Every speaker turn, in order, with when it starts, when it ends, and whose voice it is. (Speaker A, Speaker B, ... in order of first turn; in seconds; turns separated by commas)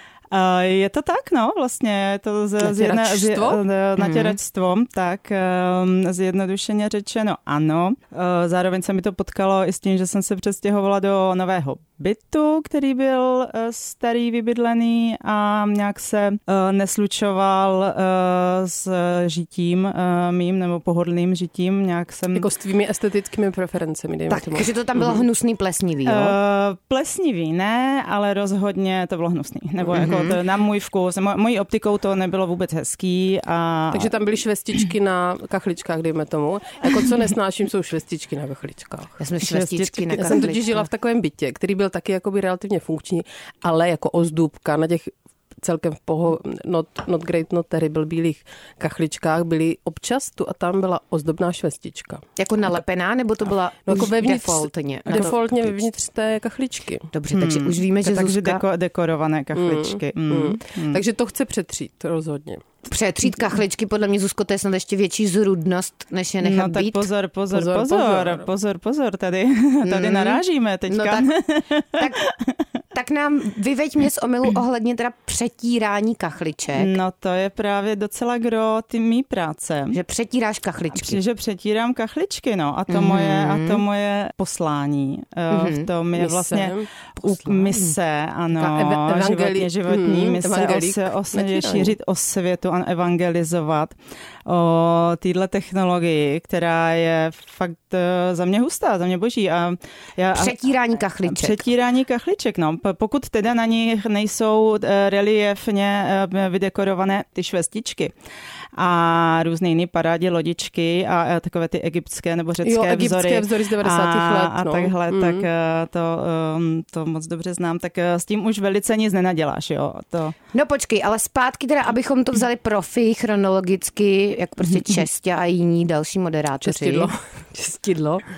Speaker A: 0.3-22.5, Speaker B: 2.7-3.6, Speaker C: 4.0-4.4, Speaker B: 22.3-25.2, Speaker C: 24.3-26.4, Speaker A: 26.0-34.1, Speaker C: 29.9-30.4, Speaker B: 33.9-39.2, Speaker C: 39.2-40.9, Speaker A: 39.4-40.4, Speaker B: 40.2-52.2, Speaker C: 52.4-55.6, Speaker B: 53.9-57.1, Speaker C: 57.1-58.6, Speaker A: 57.3-61.0, Speaker B: 59.6-62.6, Speaker C: 62.9-67.1, Speaker A: 66.4-72.6, Speaker B: 67.5-68.5, Speaker C: 69.8-71.3, Speaker C: 72.0-72.2, Speaker C: 72.9-77.0, Speaker A: 76.7-80.0, Speaker C: 79.9-81.2, Speaker A: 80.9-100.6, Speaker C: 82.9-83.8, Speaker C: 85.5-85.9, Speaker B: 86.1-86.9, Speaker C: 87.5-87.9, Speaker B: 88.6-91.9, Speaker C: 100.3-101.7, Speaker A: 101.2-108.1, Speaker A: 108.8-120.3, Speaker B: 112.6-115.5, Speaker C: 120.5-127.1, Speaker B: 126.6-128.2